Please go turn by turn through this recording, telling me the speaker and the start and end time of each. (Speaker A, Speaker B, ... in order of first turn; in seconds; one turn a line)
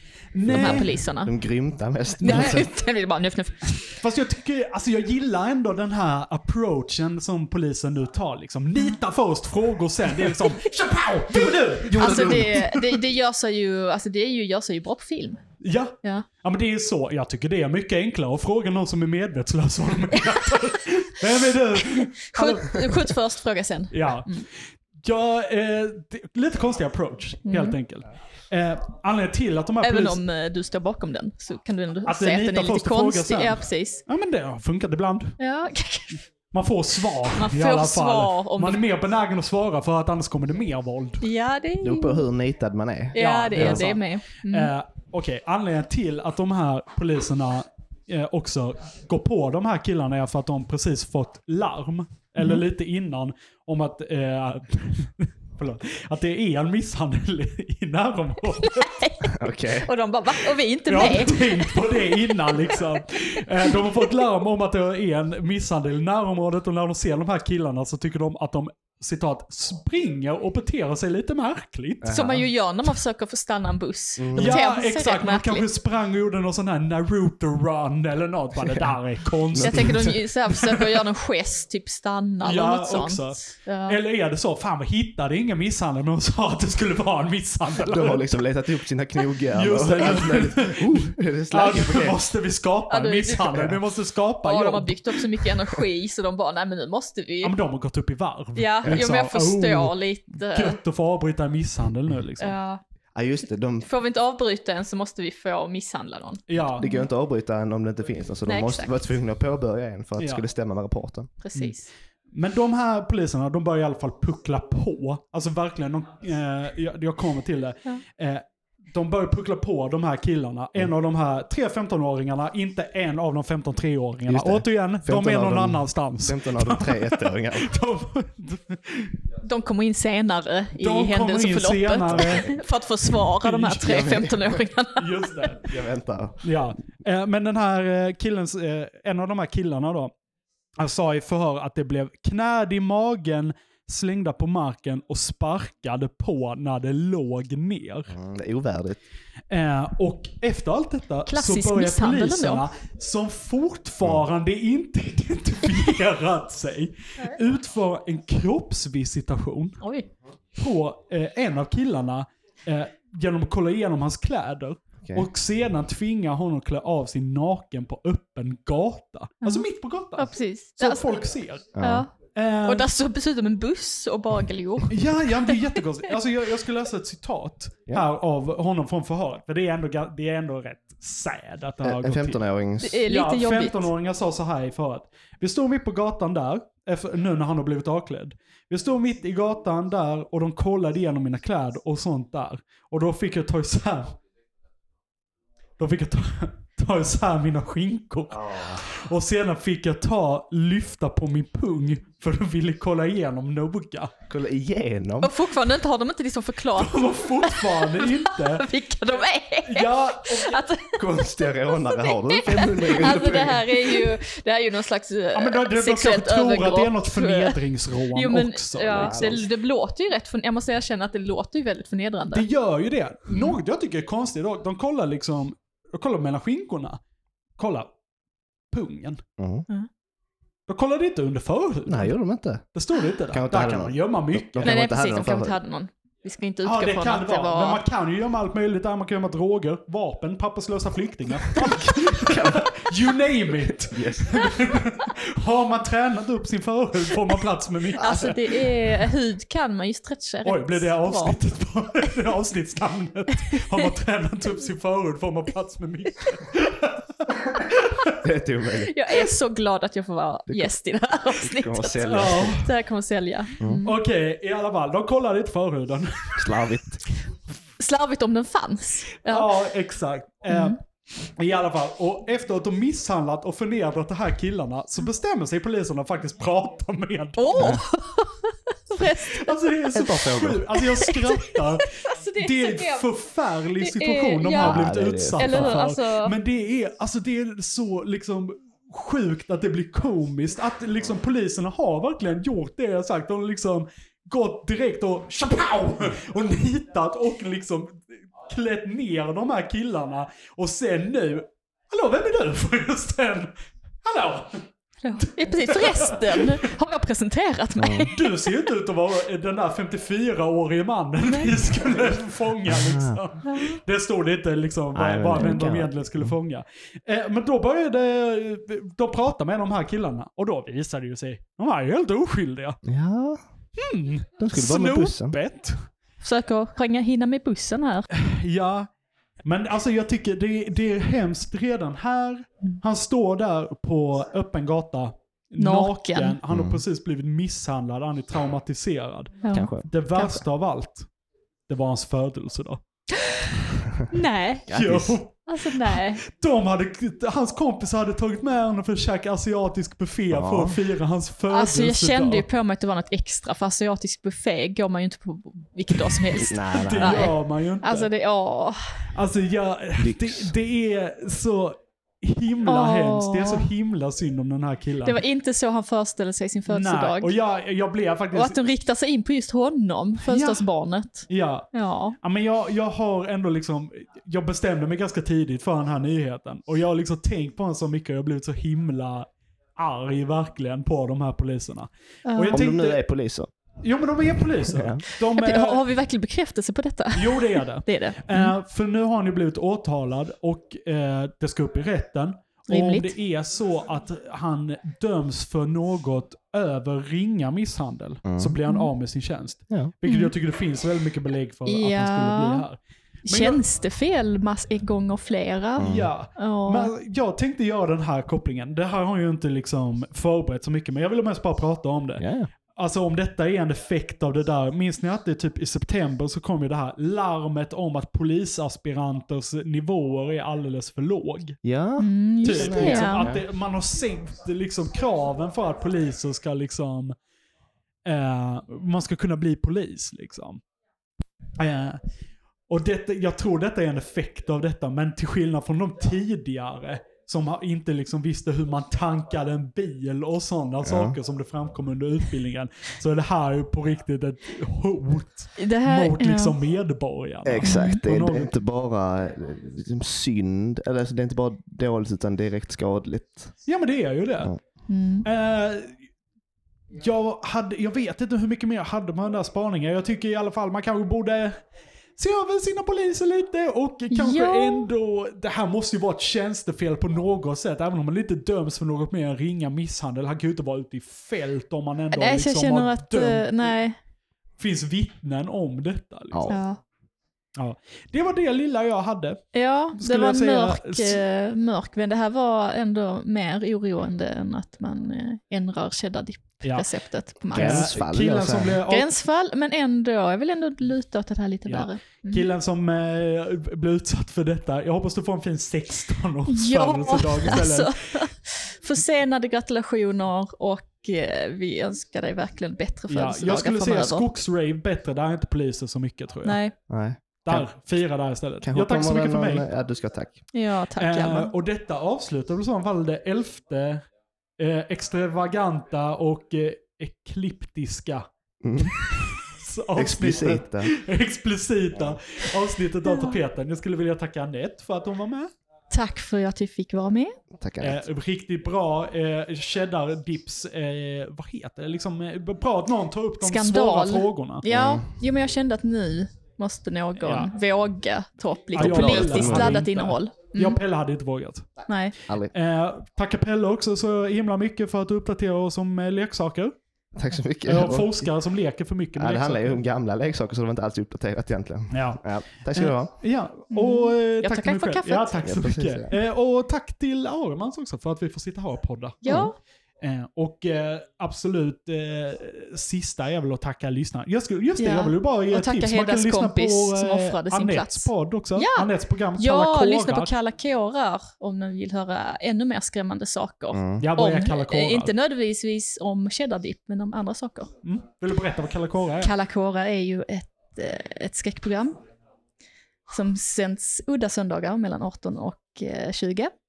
Speaker A: 0.3-0.9
Speaker B: 0.5-1.3
Speaker C: 0.5-2.7
Speaker A: 2.2-2.7
Speaker B: 2.2-3.8
Speaker A: 3.8-13.0
Speaker B: 11.3-15.4
Speaker C: 11.9-12.5
Speaker A: 15.6-23.1
Speaker B: 21.8-24.4
Speaker A: 23.9-30.2
Speaker B: 27.4-27.8
Speaker B: 29.8-34.0
Speaker A: 32.0-35.4
Speaker B: 35.4-36.2
Speaker A: 36.5-41.2
Speaker B: 37.3-38.8
Speaker B: 41.2-42.2
Speaker C: 41.8-43.9
Speaker B: 43.1-44.7
Speaker A: 43.2-59.0
Speaker B: 58.5-62.8
Speaker C: 59.2-59.9
Speaker A: 60.9-72.2
Speaker B: 63.6-64.0
Speaker C: 72.0-72.4
Speaker B: 72.1-75.7
Speaker C: 74.2-74.6
Speaker A: 74.3-81.0
Speaker C: 79.5-80.1
Speaker B: 79.6-84.0
Speaker A: 82.4-88.4
Speaker C: 87.8-92.2
Speaker A: 89.5-95.5
Speaker B: 92.9-93.7
Speaker C: 93.4-93.8
Speaker B: 94.4-97.5
Speaker A: 97.4-99.9
Speaker B: 98.5-100.8
Speaker A: 100.5-102.5
Speaker B: 102.4-102.8
Speaker C: 103.1-103.9
Speaker B: 103.8-107.0
Speaker A: 106.5-106.9
Speaker C: 106.8-111.3
Speaker B: 108.5-109.0
Speaker A: 110.2-110.4
Speaker B: 111.4-111.9
Speaker A: 112.3-129.2
Speaker C: 124.3-127.7
Speaker B: 129.4-135.5
Speaker A: 130.8-132.5
Speaker C: 132.1-132.6
Speaker A: 133.1-134.2
Speaker C: 133.8-134.6
Speaker A: 134.9-135.8
Speaker C: 135.6-136.4
Speaker A: 136.4-140.1
Speaker A: 140.8-148.1
Speaker C: 148.1-149.0
Speaker A: 149.5-159.8
Speaker B: 151.3-152.6
Speaker B: 159.8-160.1
Speaker A: 160.6-172.9
Speaker B: 169.4-171.2
Speaker C: 171.7-172.1
Speaker B: 171.8-172.1
Speaker B: 172.6-175.8
Speaker A: 174.9-182.4
Speaker C: 181.8-183.0
Speaker B: 182.8-183.9
Speaker A: 183.1-194.1
Speaker A: 195.8-204.1
Speaker C: 198.3-198.8
Speaker C: 204.3-205.3
Speaker B: 205.2-217.6
Speaker A: 206.7-208.7
Speaker A: 209.6-210.6
Speaker C: 210.9-213.8
Speaker A: 215.3-219.4
Speaker B: 218.1-222.4
Speaker C: 218.9-219.4
Speaker A: 222.3-227.0
Speaker B: 223.3-223.6
Speaker A: 227.6-227.9
Speaker A: 228.7-229.2
Speaker C: 229.4-229.7
Speaker A: 230.7-232.1
Speaker C: 231.8-232.6
Speaker A: 232.7-234.7
Speaker C: 233.3-235.6
Speaker B: 234.6-237.8
Speaker A: 236.6-248.5
Speaker C: 242.1-242.7
Speaker C: 243.6-244.5
Speaker B: 248.0-251.4
Speaker C: 248.0-248.3
Speaker A: 250.4-258.1
Speaker B: 253.5-253.8
Speaker C: 258.2-258.9
Speaker B: 258.8-264.0
Speaker C: 260.5-260.7
Speaker C: 261.4-262.7
Speaker A: 262.0-262.7
Speaker C: 263.6-263.9
Speaker A: 263.8-266.7
Speaker C: 266.4-267.0
Speaker B: 267.8-269.5
Speaker A: 269.2-277.8
Speaker B: 270.5-270.8
Speaker B: 277.4-279.6
Speaker A: 279.3-303.5
Speaker C: 279.9-280.6
Speaker B: 280.8-283.1
Speaker B: 283.8-286.3
Speaker C: 284.5-285.8
Speaker A: 304.0-304.6
Speaker B: 305.0-308.7
Speaker A: 305.2-306.6
Speaker C: 307.8-308.1
Speaker A: 308.1-322.8
Speaker B: 311.2-312.0
Speaker C: 312.6-313.2
Speaker B: 313.4-313.8
Speaker C: 314.9-316.3
Speaker C: 322.8-323.4
Speaker A: 323.8-325.9
Speaker C: 324.4-325.4
Speaker B: 326.2-328.1
Speaker A: 328.1-328.9
Speaker A: 329.4-341.1
Speaker B: 335.6-336.4
Speaker C: 336.5-336.8
Speaker B: 339.4-340.4
Speaker C: 339.5-339.9
Speaker A: 341.7-342.8
Speaker B: 343.2-343.4
Speaker B: 344.1-344.7
Speaker C: 344.7-345.2
Speaker A: 344.7-352.4
Speaker B: 345.4-346.2
Speaker C: 350.3-350.8
Speaker B: 351.5-358.8
Speaker C: 356.3-357.3
Speaker A: 356.7-358.1
Speaker A: 359.1-365.2
Speaker C: 360.0-360.5
Speaker B: 362.6-363.7
Speaker B: 365.0-367.3
Speaker A: 366.7-368.6
Speaker B: 368.3-372.1
Speaker A: 370.2-370.6
Speaker A: 371.3-371.7
Speaker A: 372.2-383.0
Speaker B: 382.2-382.6
Speaker C: 382.5-383.5
Speaker A: 383.8-385.8
Speaker C: 384.6-385.0
Speaker B: 385.2-388.5
Speaker A: 387.1-403.6
Speaker B: 392.7-393.1
Speaker C: 398.2-398.6
Speaker B: 400.1-400.3
Speaker B: 401.7-402.6
Speaker B: 403.2-406.9
Speaker C: 405.8-406.1
Speaker A: 405.8-421.6
Speaker C: 412.2-412.5
Speaker C: 421.6-423.4
Speaker B: 422.0-423.3
Speaker A: 422.4-427.1
Speaker A: 428.0-430.6
Speaker A: 431.6-432.0
Speaker A: 432.7-448.5
Speaker C: 440.8-441.2
Speaker B: 445.6-446.5
Speaker C: 447.4-453.5
Speaker B: 447.6-448.0
Speaker A: 453.6-454.5
Speaker B: 454.9-455.2
Speaker A: 455.2-455.9
Speaker A: 456.9-461.6
Speaker A: 462.2-473.7
Speaker B: 464.1-464.9
Speaker B: 472.1-473.9
Speaker A: 474.6-476.6
Speaker B: 476.5-476.8
Speaker A: 477.6-481.2
Speaker B: 479.5-487.9
Speaker A: 487.5-489.1
Speaker C: 487.5-488.8
Speaker B: 488.9-492.4
Speaker A: 491.6-497.9
Speaker B: 496.5-504.2
Speaker A: 503.1-506.6
Speaker B: 506.4-506.7
Speaker C: 506.9-507.7
Speaker A: 507.4-509.7
Speaker C: 508.6-510.4
Speaker B: 510.5-511.5
Speaker A: 511.0-514.0
Speaker A: 514.6-518.2
Speaker C: 518.6-519.0
Speaker A: 518.8-525.5
Speaker C: 519.9-520.9
Speaker B: 523.0-523.4
Speaker B: 525.9-527.4
Speaker C: 527.5-528.0
Speaker A: 527.8-534.6
Speaker B: 533.4-540.8
Speaker C: 534.6-535.0
Speaker A: 537.2-537.5
Speaker C: 538.7-539.9
Speaker A: 538.7-541.7
Speaker B: 541.9-542.1
Speaker C: 542.3-542.5
Speaker A: 542.5-546.7
Speaker C: 547.1-548.3
Speaker A: 547.6-549.8
Speaker C: 549.2-553.1
Speaker A: 551.9-552.2
Speaker A: 552.7-559.3
Speaker B: 553.7-555.4
Speaker C: 555.4-556.1
Speaker B: 559.2-559.5
Speaker A: 560.0-570.3
Speaker B: 564.8-577.7
Speaker C: 573.7-574.0
Speaker A: 574.0-575.1
Speaker A: 577.8-579.3
Speaker B: 579.2-582.0
Speaker B: 583.1-586.5